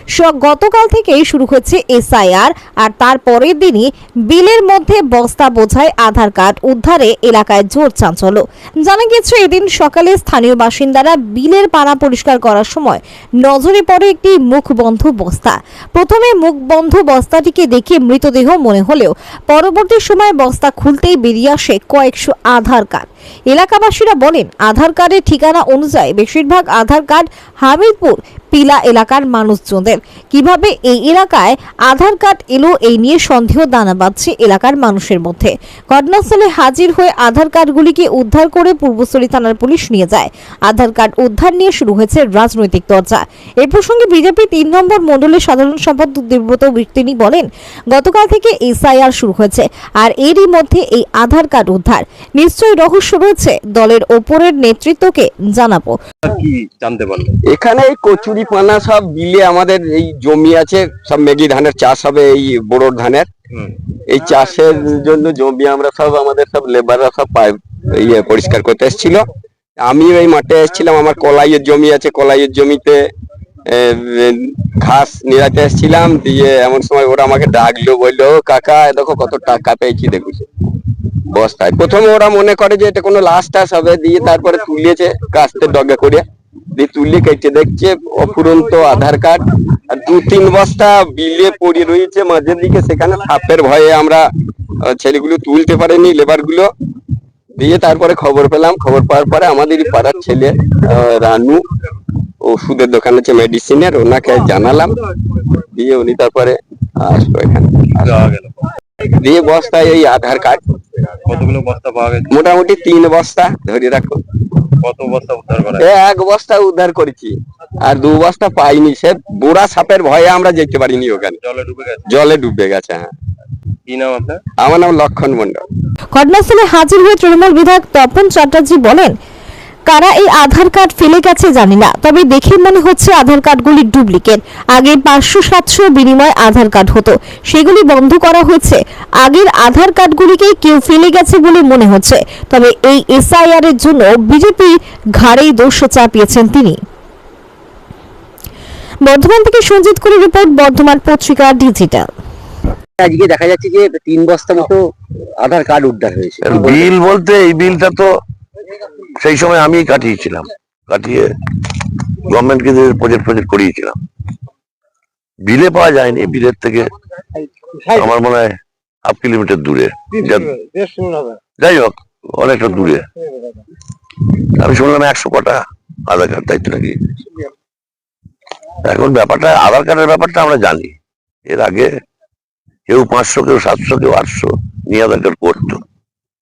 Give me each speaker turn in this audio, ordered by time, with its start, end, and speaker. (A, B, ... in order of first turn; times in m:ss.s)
0:00.2-0:56.0 A
0:56.3-0:57.4 B
0:57.5-1:03.3 C
1:04.1-1:09.2 C
1:09.8-1:13.0 C
1:13.7-1:20.5 C
1:21.3-1:26.2 C
1:26.8-1:34.2 C
1:34.8-1:36.7 C
1:37.6-1:41.6 C
1:42.4-1:45.0 C
1:45.6-1:48.2 C
1:48.0-1:48.6 B
1:49.0-1:50.9 C
1:51.3-1:52.3 B
1:52.3-1:54.2 C
1:54.8-1:55.8 B
1:55.8-2:01.4 C
2:01.4-2:02.1 B
2:02.1-2:03.1 C
2:03.9-2:04.4 B
2:04.6-2:05.6 C
2:06.2-2:09.1 A
2:09.9-2:26.8 A
2:29.0-2:32.1 A
2:33.0-2:34.8 D
2:35.4-2:36.9 D
2:36.4-2:38.1 E
2:39.2-2:41.3 E
2:42.2-2:44.0 E
2:45.5-2:46.9 E
2:47.9-2:50.6 E
2:51.6-2:53.1 E
2:54.6-2:57.0 E
2:58.8-3:01.0 E
3:01.5-3:01.9 E
3:02.9-3:05.8 E